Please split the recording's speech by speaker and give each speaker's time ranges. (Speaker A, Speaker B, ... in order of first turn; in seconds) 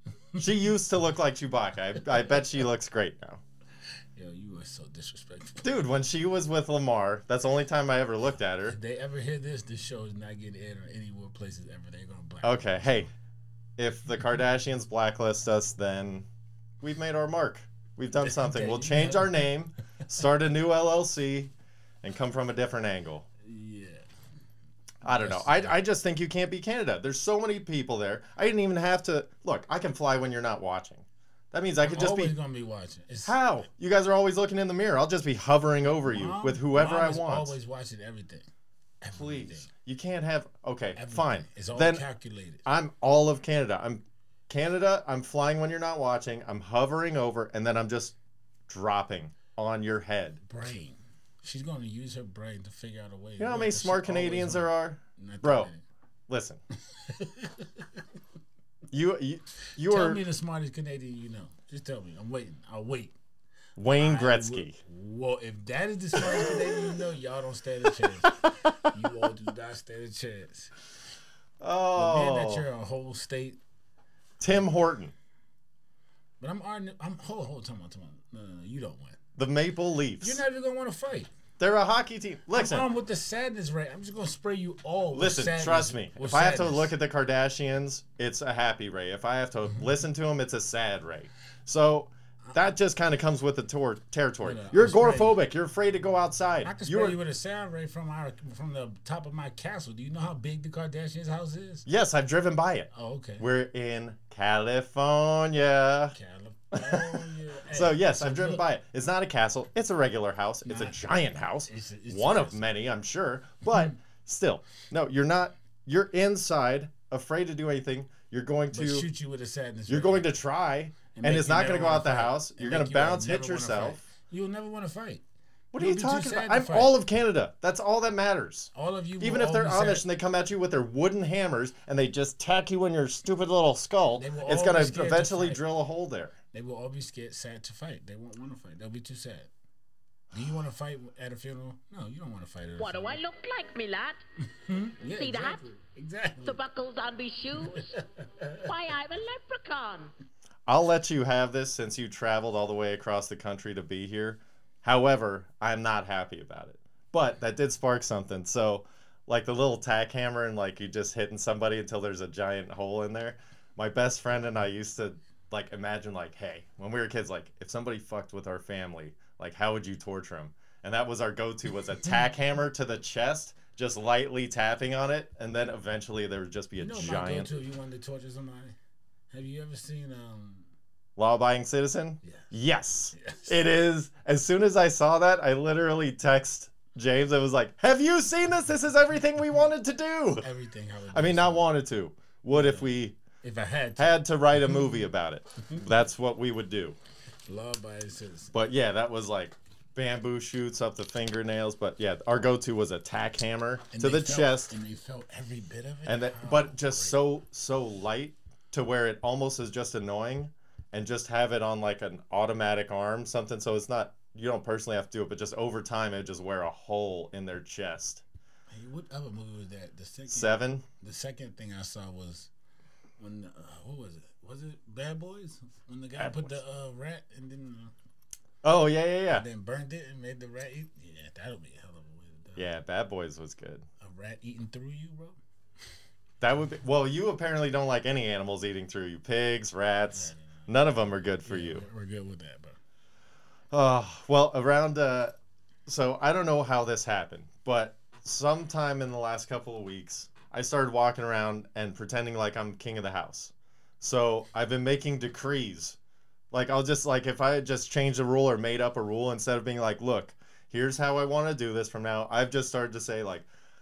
Speaker A: 0.3-3.4, 5.6-8.8, 12.4-13.1, 13.8-16.2, 16.8-23.2, 25.0-32.3, 33.2-37.6, 39.1-42.0, 42.6-48.1, 48.7-50.4, 53.4-55.7, 56.3-56.6, 58.9-60.2, 63.8-64.8, 66.1-67.0, 71.6-72.7, 74.4-75.1, 79.4-80.4, 81.6-82.9, 85.1-97.2, 101.9-106.2, 106.7-119.1, 119.9-124.0, 125.7-136.4, 150.7-177.6, 181.2-190.4, 191.1-193.2, 194.0-196.9, 198.5-204.7, 206.1-218.2, 220.3-220.8, 226.2-226.6, 228.6-229.4, 232.6-233.9, 236.4-241.8, 243.7-245.3, 245.9-256.0, 256.5-263.5
Speaker B: 4.2-5.7, 8.6-13.1, 18.2-19.5, 23.4-24.1, 25.0-25.8, 31.8-33.4, 35.9-38.5, 39.0-39.7, 41.0-42.6, 50.4-55.8, 57.0-57.8, 59.8-63.1, 64.0-70.8, 72.0-73.6, 76.4-79.2, 80.2-81.3, 82.5-86.9, 94.4-95.4, 96.6-101.9, 102.9-103.5, 106.1-108.7, 110.7-111.0, 111.7-112.6, 118.7-120.3, 121.1-125.2, 125.8-127.0, 128.7-130.1, 134.1-135.6, 136.5-139.5, 140.3-143.2, 144.5-146.6, 147.6-148.7, 176.8-178.8, 179.3-180.7, 182.2-182.5, 183.1-183.6, 190.4-191.7, 192.5-194.2, 197.4-198.5, 203.9-207.2, 218.7-222.5, 223.2-227.9, 229.3-232.7, 234.0-235.4, 240.1-240.8, 241.4-242.8
Speaker C: 142.8-144.2, 145.1-145.7, 146.4-147.9, 148.6-150.1